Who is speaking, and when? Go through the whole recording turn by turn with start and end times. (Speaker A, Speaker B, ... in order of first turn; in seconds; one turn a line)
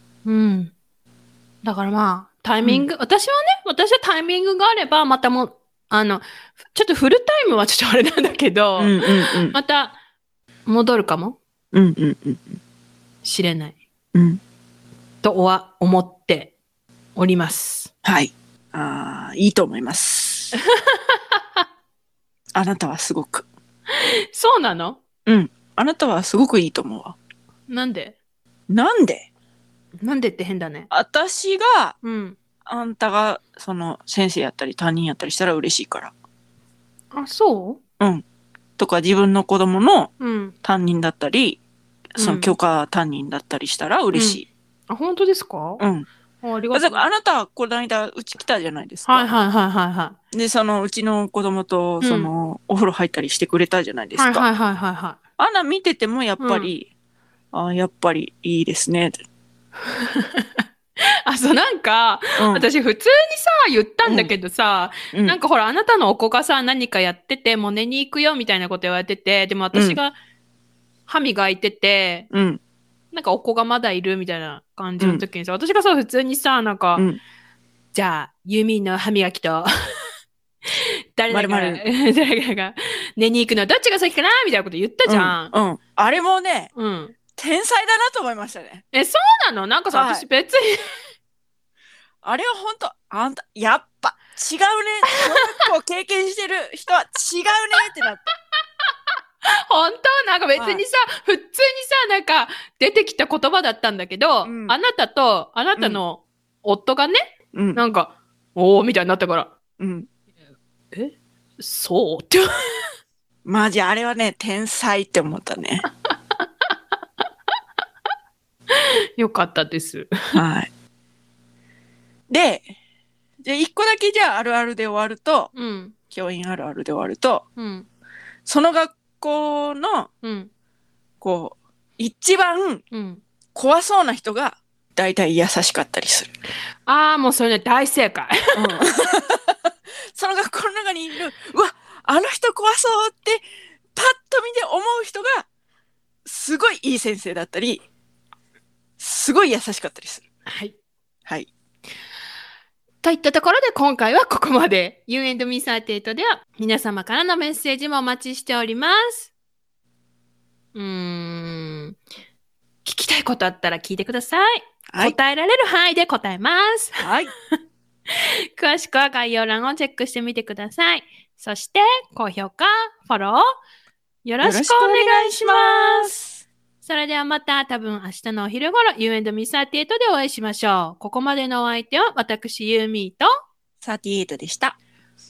Speaker A: 0.2-0.7
Speaker A: 1.6-10.0
Speaker B: 8.8-9.6
Speaker A: 10.7-11.4
Speaker B: 11.7-12.6
Speaker A: 13.2-13.8
Speaker B: 14.1-14.4
Speaker A: 15.2-16.5
Speaker A: 17.1-17.9
Speaker B: 18.0-20.6
Speaker A: 20.8-21.2
Speaker B: 22.5-23.4
Speaker A: 24.0-25.0
Speaker B: 25.2-27.1
Speaker A: 27.7-28.2
Speaker B: 28.7-29.3
Speaker A: 30.0-30.9
Speaker B: 30.9-31.9
Speaker A: 32.0-32.4
Speaker B: 32.6-36.1
Speaker A: 37.1-37.8
Speaker B: 38.8-40.1
Speaker A: 40.2-40.5
Speaker B: 40.6-41.6
Speaker B: 42.1-44.5
Speaker A: 42.2-42.5
Speaker A: 44.1-45.8
Speaker B: 45.8-46.1
Speaker A: 46.4-47.0
Speaker B: 46.7-49.4
Speaker A: 49.0-50.2
Speaker B: 50.3-54.5
Speaker A: 52.0-52.3
Speaker A: 54.1-55.2
Speaker B: 55.4-56.9
Speaker A: 56.4-56.7
Speaker B: 57.5-59.2
Speaker A: 59.9-60.5
Speaker A: 61.2-70.2
Speaker B: 62.4-62.7
Speaker B: 64.0-64.3
Speaker B: 65.1-65.4
Speaker B: 69.7-70.0
Speaker A: 71.1-72.3
Speaker B: 72.3-72.6
Speaker A: 73.1-77.0
Speaker B: 75.0-75.2
Speaker A: 77.9-79.7
Speaker A: 80.7-85.5
Speaker B: 81.3-81.8
Speaker B: 85.1-86.7
Speaker A: 86.7-87.1
Speaker B: 87.3-88.8
Speaker A: 88.9-91.0
Speaker B: 89.9-90.2
Speaker B: 92.2-98.2
Speaker A: 95.2-95.6
Speaker A: 99.7-107.2
Speaker B: 100.5-100.8
Speaker B: 104.4-104.8
Speaker B: 105.8-106.0
Speaker B: 107.5-107.8
Speaker A: 107.8-109.5
Speaker B: 109.8-110.1
Speaker A: 110.9-112.8
Speaker B: 113.4-115.9
Speaker A: 118.7-120.4
Speaker B: 120.3-120.7
Speaker B: 122.3-122.7
Speaker B: 123.4-125.5
Speaker A: 125.5-125.9
Speaker B: 126.1-127.4
Speaker A: 127.6-127.9
Speaker B: 128.4-130.1
Speaker A: 130.2-130.5
Speaker B: 131.2-132.8
Speaker A: 132.9-133.2
Speaker B: 133.5-136.3
Speaker A: 136.8-138.8
Speaker B: 138.5-139.5
Speaker B: 140.1-145.5
Speaker B: 146.2-147.8
Speaker B: 149.0-150.2
Speaker A: 150.5-150.8
Speaker A: 153.0-159.3
Speaker A: 160.7-162.0
Speaker A: 162.8-167.1
Speaker B: 164.9-165.2
Speaker B: 167.0-167.3
Speaker A: 168.6-173.4
Speaker A: 174.2-176.1
Speaker B: 174.4-176.4
Speaker A: 176.8-183.3
Speaker B: 183.8-184.8